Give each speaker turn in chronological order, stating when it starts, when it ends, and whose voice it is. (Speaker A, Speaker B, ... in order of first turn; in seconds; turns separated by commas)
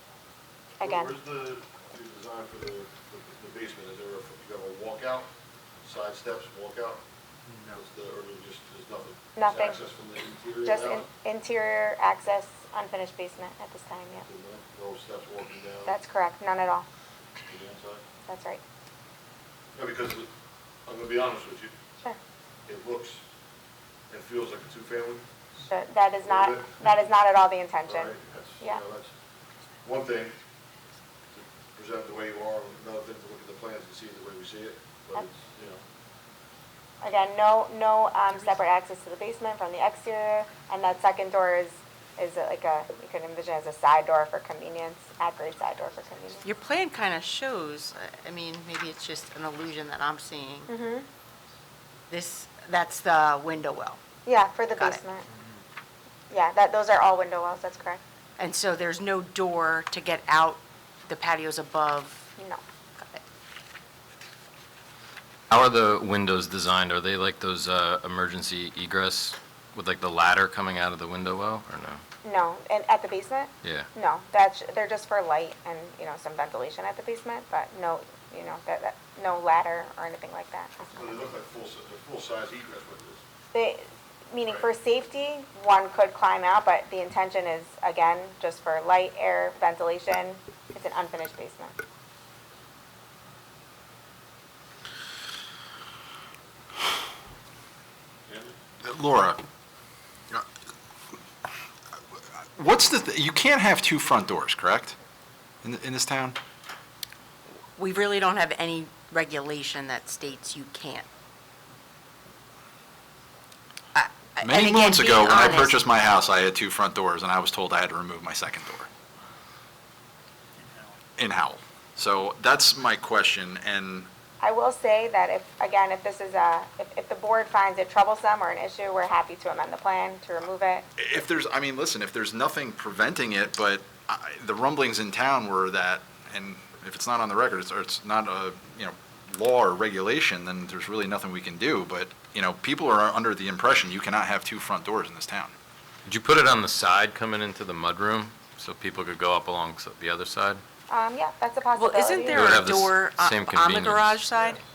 Speaker A: 0.8-1.1, Speaker B: 0.8-5.3, Speaker B: 5.8-7.0, Speaker B: 7.7-11.1, Speaker A: 9.4-9.8, Speaker A: 10.6-14.3, Speaker B: 14.3-16.0, Speaker A: 15.9-16.9, Speaker B: 17.5-18.0, Speaker A: 18.3-18.6, Speaker B: 19.8-20.3, Speaker B: 20.9-21.8, Speaker B: 22.7-23.2, Speaker B: 24.1-25.3, Speaker A: 25.6-28.8, Speaker B: 26.2-26.8, Speaker B: 27.8-29.1, Speaker B: 29.8-30.4, Speaker B: 31.3-35.8, Speaker A: 37.0-46.5, Speaker C: 46.4-50.7, Speaker A: 50.7-51.1, Speaker C: 52.1-54.0, Speaker A: 54.3-55.3, Speaker C: 54.8-55.0, Speaker A: 56.3-58.0, Speaker C: 58.4-62.3, Speaker A: 62.4-62.6, Speaker D: 65.5-72.0, Speaker A: 72.2-81.2, Speaker B: 80.9-83.2, Speaker A: 83.5-91.8, Speaker B: 98.3-98.5, Speaker E: 98.8-99.4, Speaker E: 102.5-105.0, Speaker E: 105.6-106.4, Speaker C: 107.8-111.1, Speaker C: 114.0-115.8, Speaker E: 114.4-118.9, Speaker E: 121.2-124.1, Speaker A: 124.4-130.9, Speaker E: 131.0-145.5, Speaker D: 146.1-150.6, Speaker A: 150.9-152.6, Speaker C: 151.7-154.6, Speaker D: 152.3-154.2